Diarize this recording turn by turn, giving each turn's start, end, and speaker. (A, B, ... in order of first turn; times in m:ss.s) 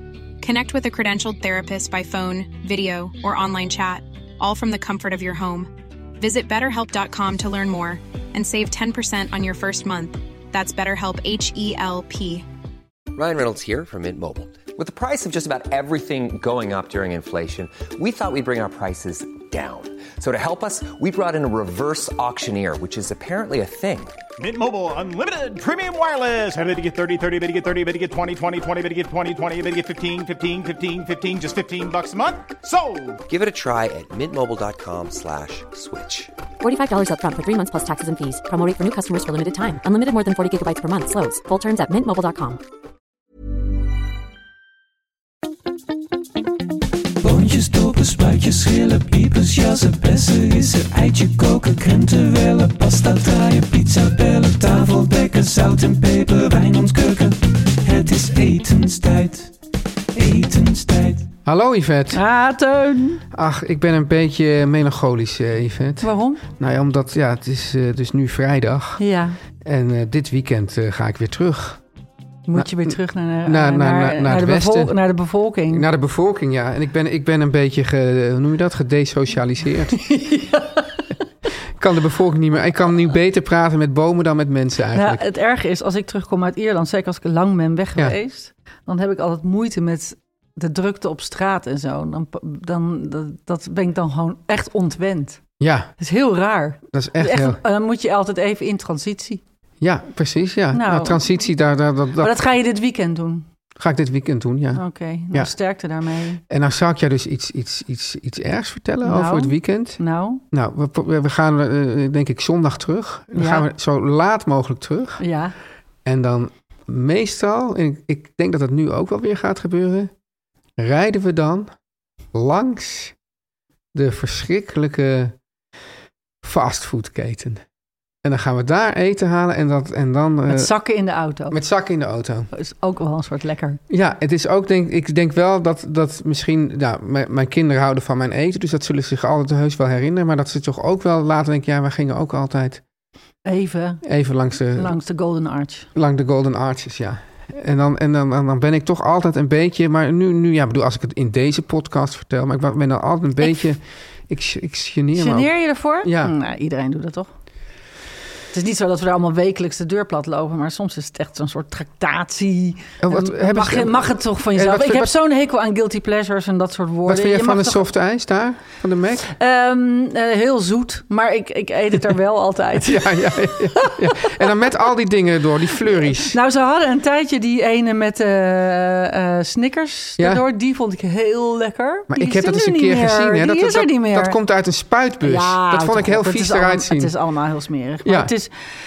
0:00.4-0:12.4 A
0:13.1-0:24.1 B
0:24.4-0:33.2 C
0:33.3-0:36.3 B
0:36.6-0:42.6 D
0:47.2-0:59.5 E
1:00.1-1:01.3 E
1:01.4-1:02.2 F
1:02.1-1:03.2 G
1:03.3-1:09.0 F
1:06.0-1:06.4 G
1:09.0-1:09.4 G
1:09.6-1:11.8 F
1:12.5-1:15.8 G
1:12.5-1:14.9 F
1:15.7-1:20.0 F
1:19.9-1:21.0 G
1:21.8-1:25.2 F
1:24.9-1:35.4 G
1:35.6-1:35.9 F
1:36.0-1:39.4 G
1:36.9-1:37.6 F
1:39.8-1:42.3 F
1:40.7-1:41.2 G
1:42.2-1:43.5 G
1:43.8-1:45.5 F
1:44.8-1:46.4 G
1:46.5-1:50.0 F
1:49.0-1:50.4 G
1:50.5-1:55.2 F
1:53.4-1:53.6 G
1:55.2-1:55.5 G
1:56.0-2:00.1 F
2:00.8-2:01.7 F
2:02.3-2:03.1 F
2:03.9-2:05.3 F
2:06.4-2:07.6 F
2:08.2-2:10.7 F
2:10.5-2:11.6 G
2:11.5-2:12.5 F
2:12.5-2:13.8 G
2:13.9-2:22.8 F
2:23.4-2:24.0 G
2:24.0-2:25.0 F
2:24.8-2:25.9 G
2:25.9-2:36.3 F
2:35.1-2:37.3 G
2:38.5-2:47.9 G
2:43.0-2:45.1 F
2:47.0-2:49.3 F
2:49.3-2:54.4 G
2:52.8-2:56.4 F
2:56.0-3:04.4 G
3:00.2-3:00.4 F
3:02.1-3:07.1 F
3:05.2-3:08.5 G
3:08.0-3:08.3 F